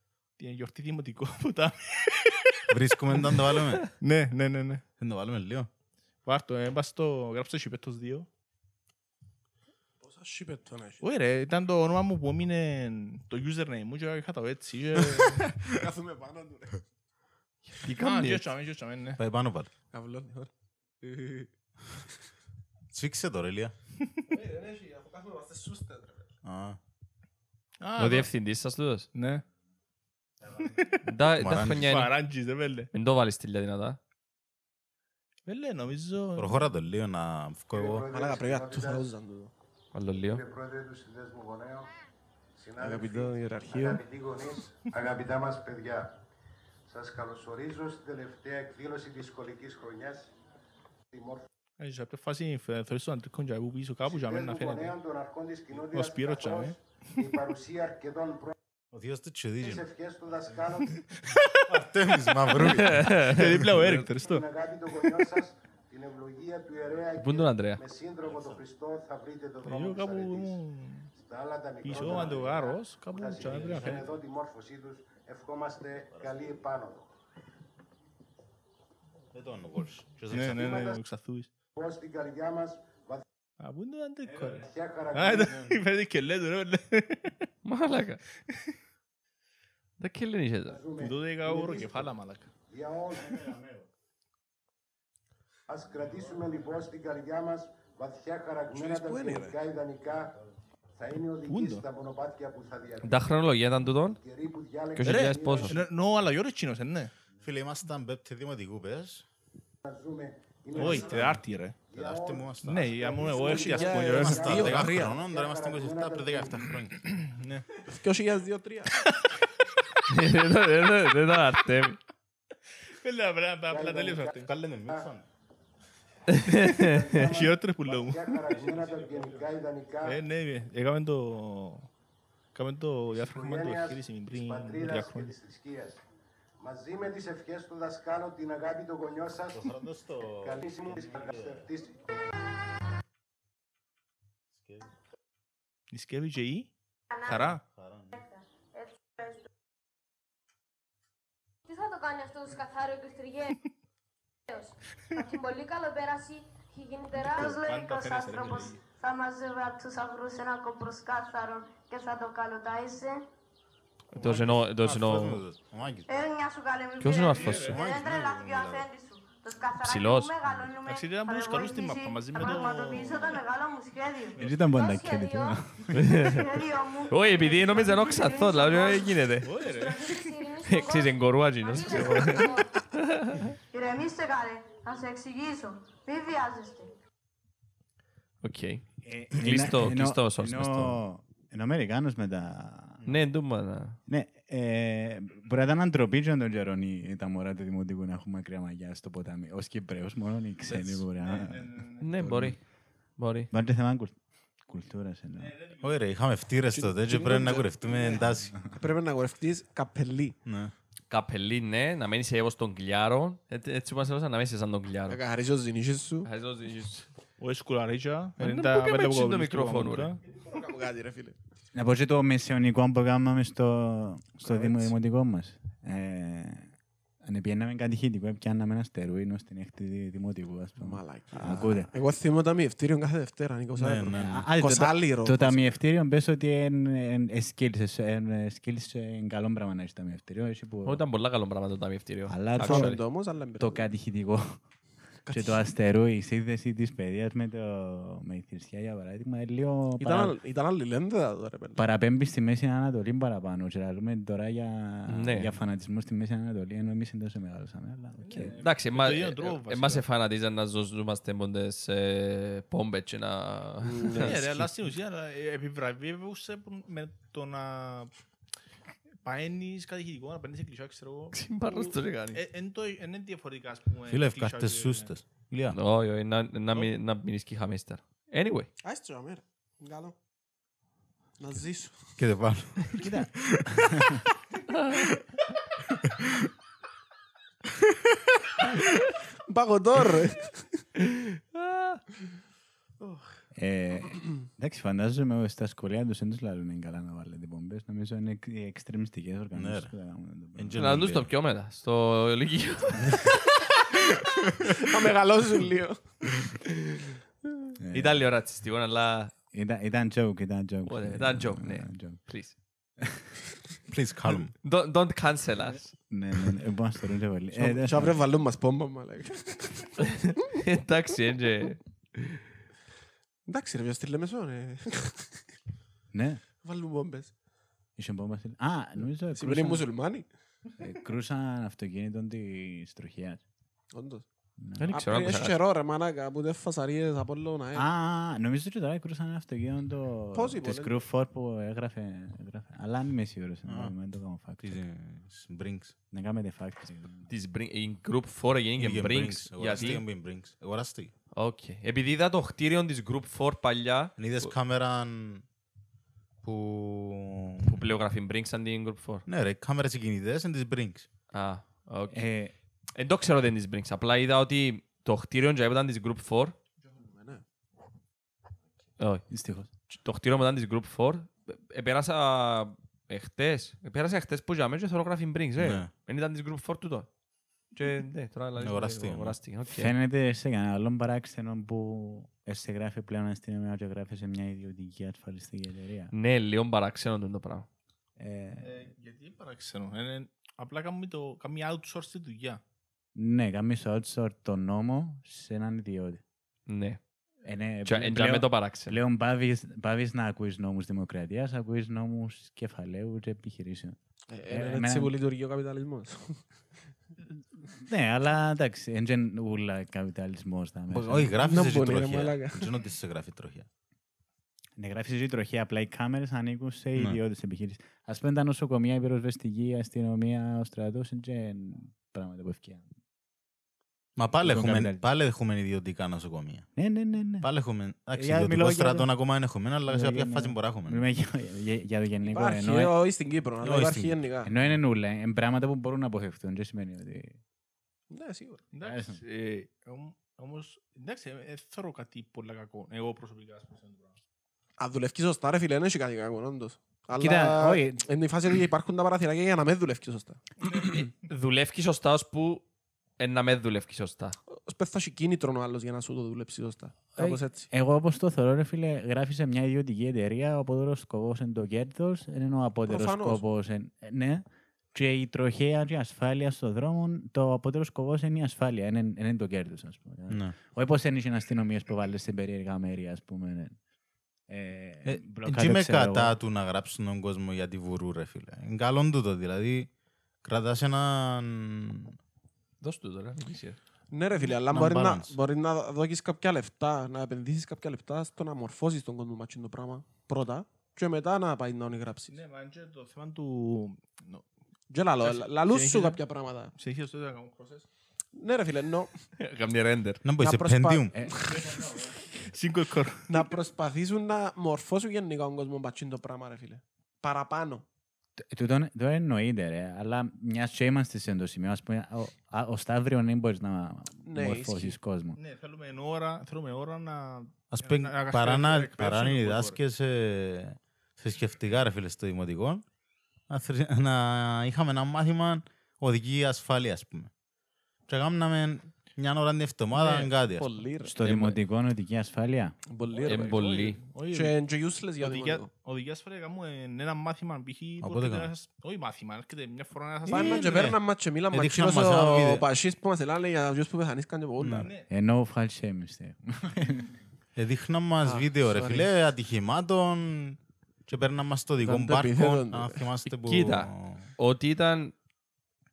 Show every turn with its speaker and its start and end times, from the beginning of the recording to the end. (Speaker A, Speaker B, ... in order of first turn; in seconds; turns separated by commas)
Speaker A: 0.4-4.8, Speaker B: 2.7-3.9, Speaker B: 5.0-5.7, Speaker A: 6.3-8.3, Speaker C: 10.0-11.0, Speaker A: 11.0-15.5, Speaker C: 15.8-16.8, Speaker D: 17.7-18.5, Speaker A: 18.0-19.2, Speaker B: 19.2-19.7, Speaker C: 19.9-20.5, Speaker C: 21.0-21.5, Speaker B: 22.9-23.7, Speaker C: 24.3-26.3, Speaker B: 26.4-26.8, Speaker A: 27.8-28.3, Speaker D: 28.0-29.1, Speaker A: 29.1-29.4, Speaker A: 30.5-31.1, Speaker D: 31.1-32.1, Speaker B: 31.4-31.9, Speaker A: 31.6-32.9, Speaker D: 32.9-34.0, Speaker A: 35.5-36.7, Speaker B: 36.4-38.1, Speaker E: 37.7-39.1, Speaker C: 38.1-39.5, Speaker D: 39.9-40.4, Speaker E: 40.2-41.9, Speaker E: 42.6-46.1, Speaker C: 42.8-44.0, Speaker E: 46.9-50.3, Speaker E: 51.1-51.5, Speaker A: 51.8-55.0, Speaker E: 54.2-58.5, Speaker A: 55.8-57.2, Speaker B: 58.9-59.9, Speaker E: 59.6-61.1, Speaker A: 61.1-61.6, Speaker B: 61.5-63.9, Speaker A: 62.5-64.5, Speaker D: 62.6-63.4, Speaker E: 63.9-70.6, Speaker D: 67.2-67.8, Speaker B: 68.2-68.6, Speaker A: 69.6-71.1, Speaker E: 71.2-77.1, Speaker A: 71.8-74.1, Speaker B: 73.4-74.0, Speaker B: 79.3-80.8, Speaker A: 80.3-81.5, Speaker E: 80.5-81.0, Speaker E: 81.8-83.2, Speaker A: 83.6-87.5, Speaker E: 84.5-85.7, Speaker D: 87.7-88.2, Speaker A: 88.5-88.8, Speaker D: 90.0-90.8, Speaker E: 90.7-92.1, Speaker A: 91.0-92.5, Speaker E: 92.7-93.4, Speaker E: 95.7-100.3, Speaker C: 98.7-99.6, Speaker E: 101.0-103.4, Speaker A: 101.5-101.8, Speaker D: 103.0-104.2, Speaker E: 104.1-105.8, Speaker D: 105.0-105.8, Speaker A: 105.1-107.1, Speaker B: 107.4-109.3, Speaker E: 109.8-116.7, Speaker A: 110.7-111.8, Speaker B: 110.9-111.2, Speaker B: 111.9-112.9, Speaker A: 112.6-114.9, Speaker C: 113.4-115.2, Speaker B: 114.2-117.1, Speaker A: 117.1-117.8, Speaker C: 117.9-119.0, Speaker A: 119.1-119.4, Speaker D: 120.1-122.0, Speaker A: 122.9-124.5, Speaker E: 123.7-125.1, Speaker B: 124.4-125.2, Speaker D: 126.3-127.2, Speaker E: 126.6-130.2, Speaker A: 127.2-129.4, Speaker A: 130.0-131.9, Speaker A: 132.6-135.3, Speaker E: 133.1-136.0, Speaker E: 136.6-139.8, Speaker B: 139.5-141.7, Speaker E: 140.4-142.1, Speaker B: 144.6-144.9, Speaker A: 145.9-147.6, Speaker F: 147.1-147.6, Speaker B: 147.7-148.2, Speaker F: 148.1-149.4, Speaker F: 151.7-153.6, Speaker F: 154.5-163.2, Speaker A: 157.1-158.8, Speaker D: 164.1-165.4, Speaker B: 164.2-166.2, Speaker F: 166.1-182.7, Speaker D: 167.0-167.8, Speaker B: 167.3-168.9, Speaker A: 167.4-167.8, Speaker D: 169.8-170.3, Speaker B: 170.4-170.7, Speaker A: 170.8-173.4, Speaker G: 174.4-176.0, Speaker D: 176.1-176.4, Speaker D: 177.1-179.5, Speaker A: 179.4-180.2, Speaker D: 180.7-182.5, Speaker A: 181.9-182.5, Speaker D: 183.1-183.5, Speaker F: 183.7-186.9, Speaker D: 188.4-191.0, Speaker G: 189.0-193.0, Speaker D: 193.1-194.0, Speaker G: 194.1-202.6, Speaker A: 200.7-202.2, Speaker D: 202.0-202.6, Speaker D: 203.2-203.5, Speaker G: 203.5-205.5, Speaker A: 205.4-205.9, Speaker B: 205.8-208.8, Speaker C: 206.7-210.4, Speaker B: 210.5-210.7, Speaker D: 211.1-215.2, Speaker C: 215.1-216.3, Speaker D: 216.2-217.1, Speaker A: 217.4-220.3, Speaker D: 218.4-220.2, Speaker C: 220.4-221.4, Speaker G: 221.8-226.7, Speaker C: 224.4-224.9, Speaker G: 227.2-231.9, Speaker C: 230.8-235.8, Speaker B: 233.8-234.5, Speaker G: 234.1-241.0, Speaker D: 240.8-243.0, Speaker G: 242.3-244.6, Speaker C: 242.6-243.8, Speaker C: 245.3-245.7, Speaker G: 245.3-250.3, Speaker C: 250.0-251.8, Speaker G: 251.8-258.6, Speaker D: 255.1-255.5, Speaker A: 258.2-260.0, Speaker D: 258.6-264.4, Speaker C: 263.8-264.6, Speaker A: 264.2-268.1, Speaker A: 269.2-271.4, Speaker D: 271.3-272.4, Speaker A: 272.3-275.1, Speaker B: 274.1-275.8, Speaker D: 275.7-278.7, Speaker C: 278.8-280.1, Speaker C: 281.4-282.2, Speaker B: 282.2-284.2, Speaker G: 283.0-284.2, Speaker C: 289.5-290.8, Speaker D: 291.5-292.0, Speaker C: 293.0-293.4, Speaker G: 293.6-300.9, Speaker B: 299.6-299.9, Speaker B: 300.6-301.3, Speaker D: 300.8-303.3, Speaker C: 304.7-306.2, Speaker G: 307.8-308.2, Speaker D: 307.9-309.3, Speaker G: 309.5-312.2, Speaker D: 310.9-312.6, Speaker G: 313.0-313.3, Speaker B: 313.9-314.5, Speaker D: 314.6-315.9, Speaker G: 316.1-318.2, Speaker C: 317.6-320.2, Speaker D: 320.5-322.4, Speaker C: 323.5-325.5, Speaker G: 326.1-326.4, Speaker C: 326.6-327.4, Speaker G: 328.0-329.9, Speaker C: 329.4-330.3, Speaker G: 330.8-333.4, Speaker C: 333.9-334.3, Speaker G: 334.6-334.9, Speaker D: 334.8-335.6, Speaker C: 334.9-337.9, Speaker G: 337.8-344.8, Speaker C: 340.3-340.9, Speaker B: 343.7-343.9, Speaker B: 344.6-346.0, Speaker G: 346.1-347.3, Speaker D: 347.3-350.0, Speaker B: 348.8-351.1, Speaker D: 351.4-354.5, Speaker B: 354.2-355.5, Speaker B: 356.4-357.9, Speaker D: 357.6-359.2, Speaker B: 359.3-361.1, Speaker D: 361.3-362.3, Speaker G: 362.1-362.5, Speaker D: 362.9-366.6, Speaker C: 366.8-367.4, Speaker D: 369.0-369.2, Speaker G: 369.3-369.7, Speaker D: 369.9-377.1, Speaker B: 375.6-375.9, Speaker D: 377.7-379.9, Speaker B: 378.6-379.4, Speaker G: 379.7-386.1, Speaker D: 386.1-387.7, Speaker G: 388.2-388.8, Speaker A: 388.6-392.6, Speaker G: 393.1-396.2, Speaker D: 396.7-397.0, Speaker G: 397.4-405.1, Speaker D: 397.9-399.0, Speaker C: 404.3-406.7, Speaker G: 407.7-411.4, Speaker B: 410.9-413.7, Speaker C: 411.4-412.7, Speaker G: 414.8-422.9, Speaker B: 424.2-426.7, Speaker G: 424.4-425.0, Speaker G: 426.8-427.5, Speaker B: 427.4-431.1, Speaker G: 428.1-429.1, Speaker G: 429.9-432.9, Speaker C: 432.2-434.5, Speaker B: 433.6-434.2, Speaker G: 434.4-437.4, Speaker C: 438.1-438.6, Speaker A: 438.7-444.2, Speaker G: 438.8-439.2, Speaker C: 444.8-450.8, Speaker G: 447.1-448.0, Speaker D: 450.7-452.7, Speaker D: 453.2-454.4, Speaker C: 454.5-457.7, Speaker G: 457.2-473.8, Speaker C: 462.9-463.4, Speaker B: 470.3-470.6, Speaker G: 474.5-476.4, Speaker B: 475.1-479.9, Speaker B: 480.4-482.1, Speaker D: 482.8-483.8, Speaker C: 484.1-492.4, Speaker B: 484.7-485.4, Speaker A: 492.3-494.5, Speaker C: 494.9-496.7, Speaker A: 495.2-497.9, Speaker C: 498.3-499.3, Speaker D: 499.4-500.2, Speaker B: 500.2-501.1, Speaker C: 500.4-501.8, Speaker G: 501.1-502.2, Speaker A: 501.7-503.5, Speaker C: 503.3-507.9, Speaker G: 508.4-515.4, Speaker C: 514.2-515.0, Speaker A: 515.4-519.8, Speaker B: 517.7-522.8, Speaker B: 523.5-527.3, Speaker B: 528.1-530.7, Speaker D: 530.6-531.6, Speaker G: 531.0-532.8, Speaker C: 532.9-533.6, Speaker D: 533.3-534.0, Speaker A: 533.3-534.5, Speaker C: 534.3-535.7, Speaker A: 535.2-541.0, Speaker B: 538.0-538.5, Speaker C: 540.3-544.9, Speaker B: 541.5-542.7, Speaker B: 544.6-544.9, Speaker A: 544.8-545.1, Speaker G: 545.1-547.2, Speaker B: 547.6-554.3, Speaker C: 548.2-549.1, Speaker C: 551.8-553.1, Speaker D: 553.4-555.1